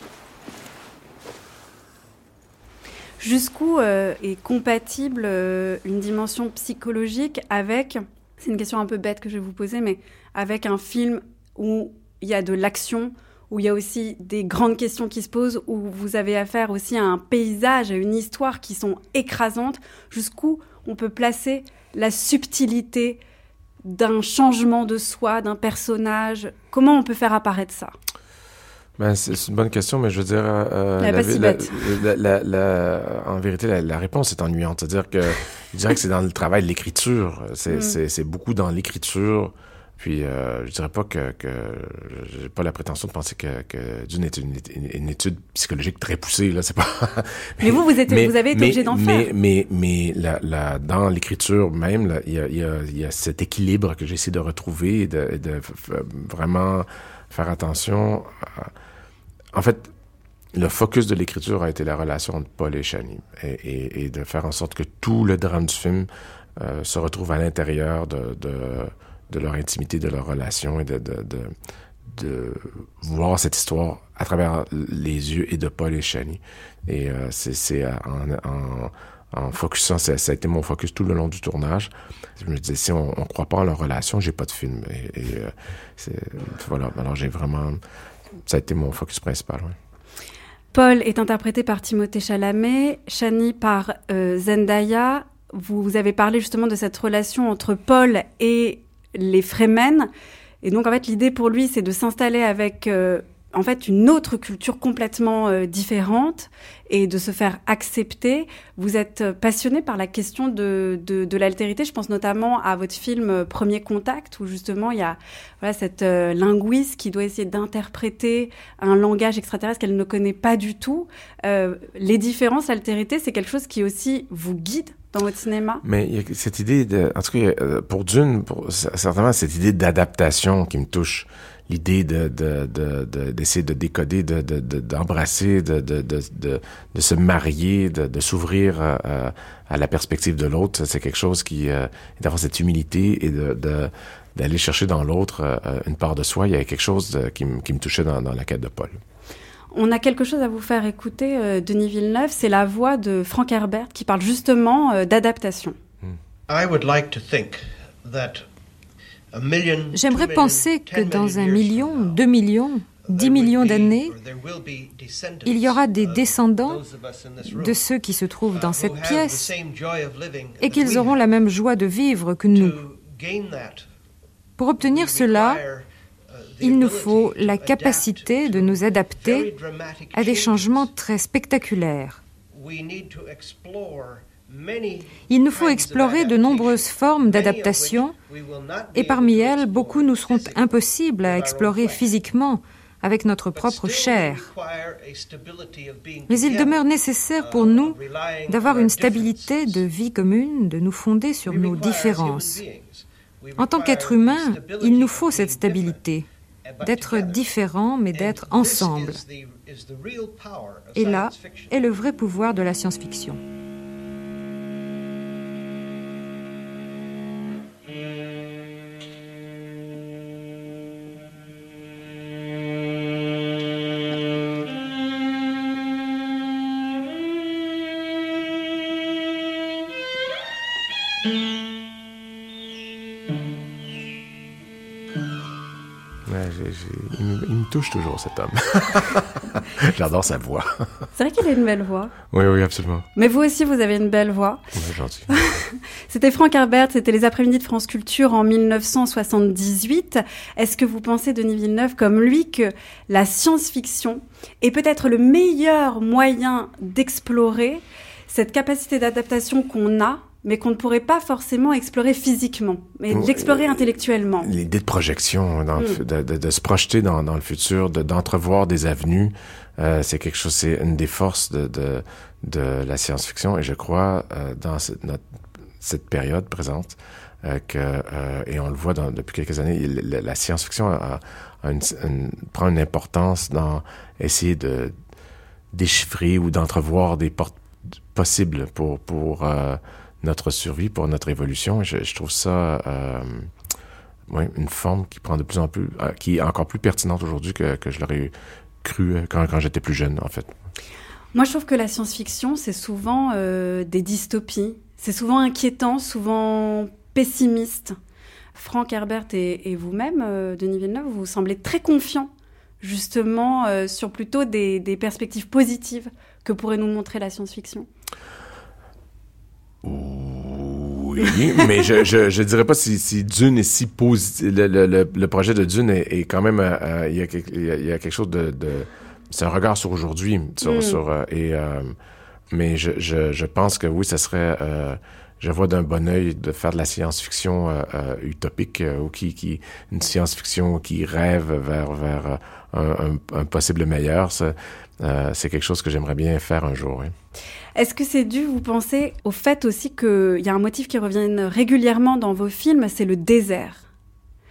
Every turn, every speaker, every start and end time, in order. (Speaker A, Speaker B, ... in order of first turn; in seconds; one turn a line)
Speaker A: 3.2-23.2
Speaker A: 23.8-27.9
Speaker B: 29.0-58.7
Speaker A: 31.0-31.9
Speaker A: 37.7-38.0
Speaker A: 47.6-49.3
Speaker B: 59.5-59.9
Speaker B: 60.5-71.5
Speaker B: 72.1-87.8
Speaker B: 88.5-89.8
Speaker A: 90.7-100.1
Speaker A: 100.6-125.8
Speaker B: 125.8-149.0
Speaker A: 149.7-155.8
Speaker C: 156.5-158.5
Speaker C: 159.3-162.2
Speaker D: 159.9-164.1
Speaker C: 163.0-167.8
Speaker D: 165.4-166.8
Speaker D: 167.4-169.5
Speaker C: 168.5-171.2
Speaker D: 170.6-172.8
Speaker C: 172.5-173.8
Speaker D: 174.6-175.6
Speaker C: 174.8-180.9
Speaker D: 176.6-179.5
Speaker D: 180.1-182.2
Speaker C: 182.5-192.1
Speaker D: 185.3-188.1
Speaker D: 188.9-194.5
Speaker C: 193.5-199.9
Speaker D: 196.3-198.0
Speaker D: 198.5-202.6
Speaker C: 201.4-206.0
Speaker D: 203.6-206.2
Speaker C: 206.6-207.6
Speaker D: 206.8-209.2
Speaker C: 208.1-211.9
Speaker D: 210.9-213.4
Speaker B: 236.2-241.1
Speaker A: 241.1-242.1
Speaker B: 242.3-243.1
Speaker A: 243.2-244.7
Speaker B: 244.7-245.4
Speaker A: 245.3-264.5
Speaker B: 263.1-263.9
Speaker B: 264.4-275.2
Speaker A: 265.8-266.0
Speaker B: 275.8-284.9
Speaker B: 285.7-287.6
Speaker B: 288.1-293.5
Speaker B: 294.3-300.5
Speaker A: 301.3-307.9
Speaker A: 308.5-317.9
Speaker B: 319.8-331.9
Speaker A: 330.6-331.0
Speaker B: 332.5-347.1
Speaker A: 347.7-353.8